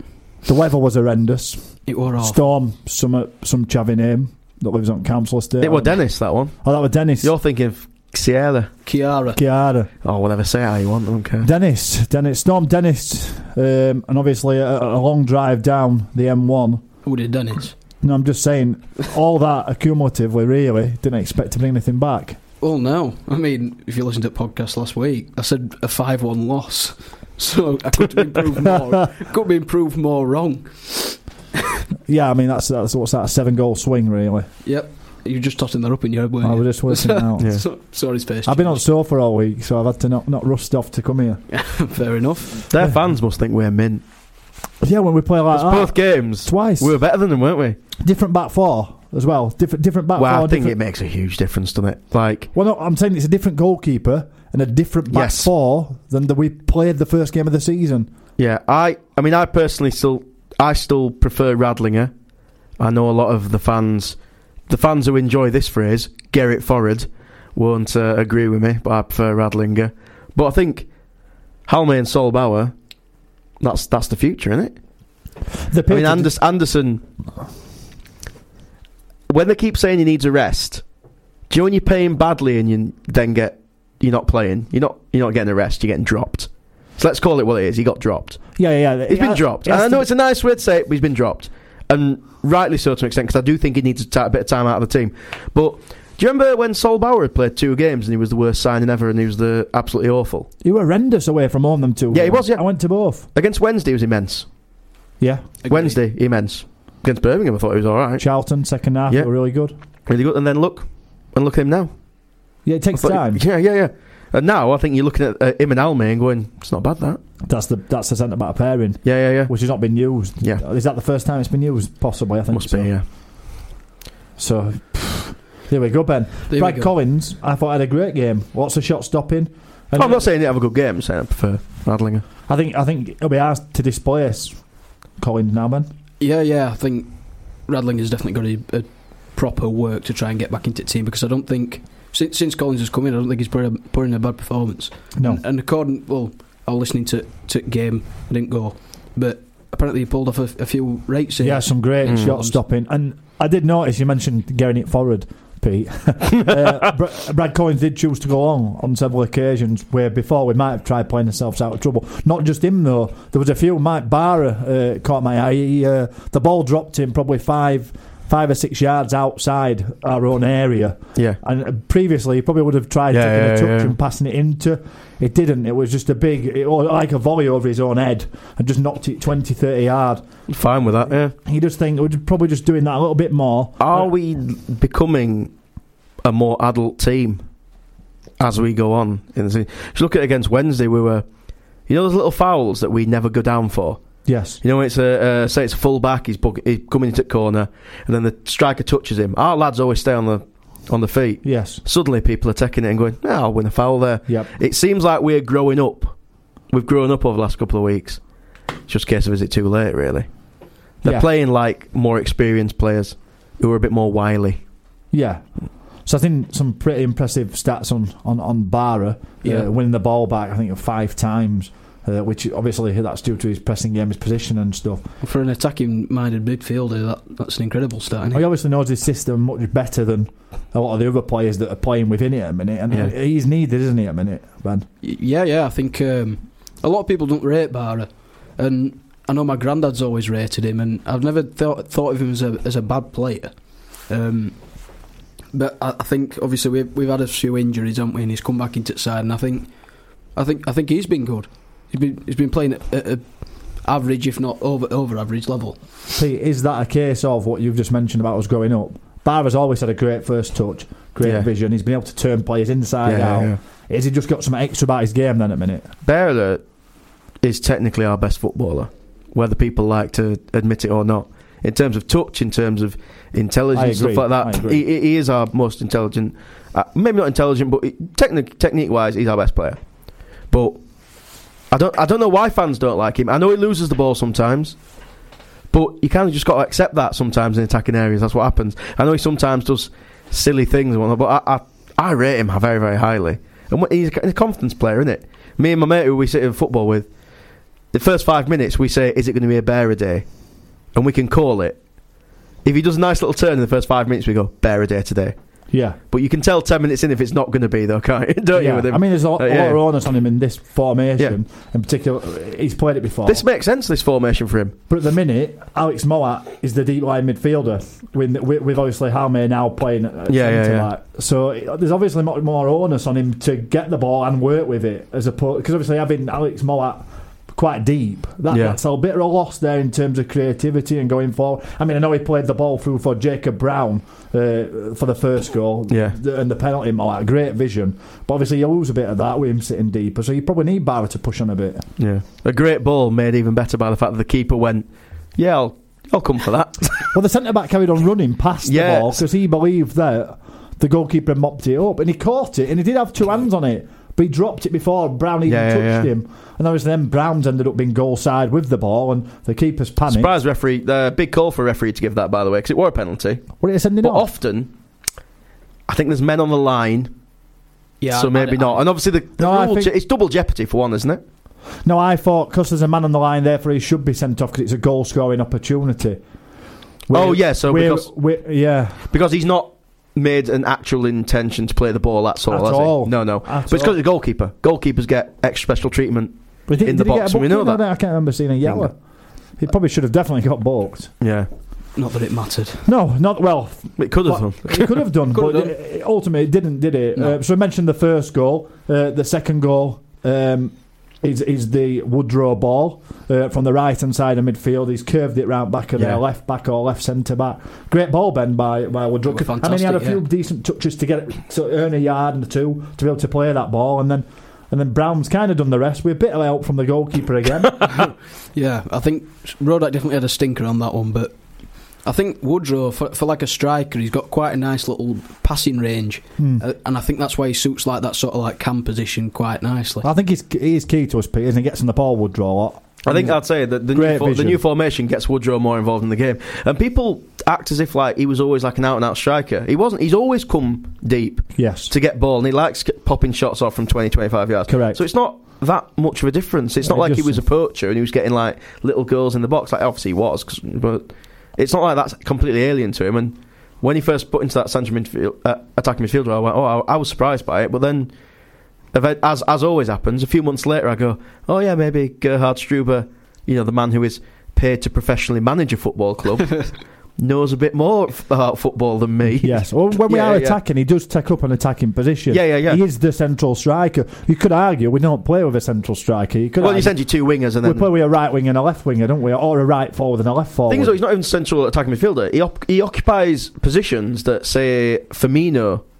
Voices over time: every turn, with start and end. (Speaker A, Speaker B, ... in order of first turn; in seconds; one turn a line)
Speaker A: 0.5-6.0
Speaker B: 1.9-2.5
Speaker C: 5.6-6.6
Speaker A: 6.6-7.3
Speaker C: 7.2-8.7
Speaker B: 8.9-9.4
Speaker A: 9.4-9.9
Speaker C: 10.0-11.5
Speaker A: 11.4-16.8
Speaker B: 17.1-17.8
Speaker A: 18.0-22.4
Speaker B: 22.6-31.2
Speaker A: 32.1-34.5
Speaker B: 34.6-38.8
Speaker A: 36.4-37.5
Speaker A: 38.5-41.4
Speaker B: 41.5-42.7
Speaker C: 42.7-44.0
Speaker A: 44.8-47.0
Speaker C: 45.5-47.8
Speaker A: 48.0-50.8
Speaker C: 50.2-52.5
Speaker A: 52.5-58.1
Speaker C: 55.1-55.5
Speaker C: 58.4-62.1
Speaker C: 62.8-64.2
Speaker C: 64.7-70.9
Speaker C: 71.7-72.7
Speaker C: 73.6-74.8
Speaker A: 75.7-76.3
Speaker C: 75.9-77.0
Speaker C: 79.3-80.8
Speaker C: 81.5-88.4
Speaker A: 88.6-90.1
Speaker C: 89.1-100.5
Speaker A: 100.6-103.3
Speaker C: 102.1-102.7
Speaker C: 103.3-104.5
Speaker A: 105.2-105.5
Speaker B: 105.6-106.0
Speaker C: 105.7-108.2
Speaker A: 108.2-109.7
Speaker C: 110.1-111.9
Speaker A: 112.7-113.4
Speaker C: 112.9-117.2
Speaker A: 117.5-122.9
Speaker C: 119.0-119.5
Speaker C: 122.5-123.0
Speaker A: 124.4-130.2
Speaker B: 126.5-126.9
Speaker C: 129.9-132.2
Speaker A: 132.5-134.6
Speaker A: 135.2-135.9
Speaker B: 136.2-137.1
Speaker B: 137.7-152.6
Speaker A: 145.2-145.4
Speaker A: 151.4-180.2
Speaker C: 173.1-173.9
Speaker C: 180.5-181.3
Speaker A: 181.4-184.1
Speaker C: 183.8-185.5
Speaker C: 186.2-187.4
Speaker C: 188.4-191.2
Speaker C: 191.9-194.0
Speaker A: 194.3-194.6
Speaker C: 194.6-206.1
Speaker A: 201.4-201.8
Speaker C: 206.7-208.2
Speaker C: 208.9-210.3
Speaker C: 211.0-214.6
Speaker A: 215.1-215.4
Speaker A: 216.1-225.1
Speaker B: 225.2-228.4
Speaker A: 228.3-234.9
Speaker B: 235.0-243.5
Speaker B: 244.1-244.7
Speaker B: 245.5-249.7
Speaker B: 250.3-255.8
Speaker A: 256.1-265.9
Speaker C: 263.1-263.6
Speaker C: 266.1-266.6
Speaker C: 267.4-279.8
Speaker A: 273.7-274.8
Speaker C: 280.5-280.8
Speaker C: 281.7-284.8
Speaker C: 285.7-297.1
Speaker C: 297.9-300.2
Speaker C: 300.9-301.8
Speaker C: 302.6-305.4
Speaker A: 305.7-306.0
Speaker C: 306.1-309.8
Speaker A: 308.5-313.4
Speaker C: 313.3-314.8
Speaker A: 314.9-341.9
Speaker C: 320.3-320.9
Speaker C: 328.5-328.8
Speaker C: 335.9-336.2
Speaker C: 342.0-347.1
Speaker A: 347.1-360.3
Speaker C: 348.6-349.2
Speaker C: 355.5-356.1
Speaker C: 360.1-364.7
Speaker A: 363.6-364.2
Speaker C: 365.9-367.1
Speaker B: 368.0-368.8
Speaker C: 368.1-371.2
Speaker A: 369.4-369.9
Speaker A: 371.9-376.2
Speaker A: 377.1-379.1
Speaker C: 377.1-378.1
Speaker C: 379.1-387.8
Speaker A: 382.5-384.0
Speaker A: 386.7-388.9
Speaker C: 388.6-388.9
Speaker A: 389.6-391.1
Speaker C: 391.2-391.5
Speaker B: 392.0-392.9
Speaker A: 392.9-417.9
Speaker C: 394.0-395.0
Speaker B: 395.3-395.7
Speaker B: 409.3-410.2
Speaker B: 417.9-421.4
Speaker B: 422.0-430.1
Speaker A: 426.4-426.6
Speaker A: 430.0-433.4
Speaker C: 433.0-458.1
Speaker A: 433.9-434.6
Speaker A: 441.6-441.9
Speaker A: 444.7-445.0
Speaker A: 446.8-447.4
Speaker C: 458.9-470.6
Speaker A: 469.3-477.0
Speaker C: 472.3-472.8
Speaker C: 476.6-477.9
Speaker A: 477.6-481.0
Speaker C: 480.7-485.8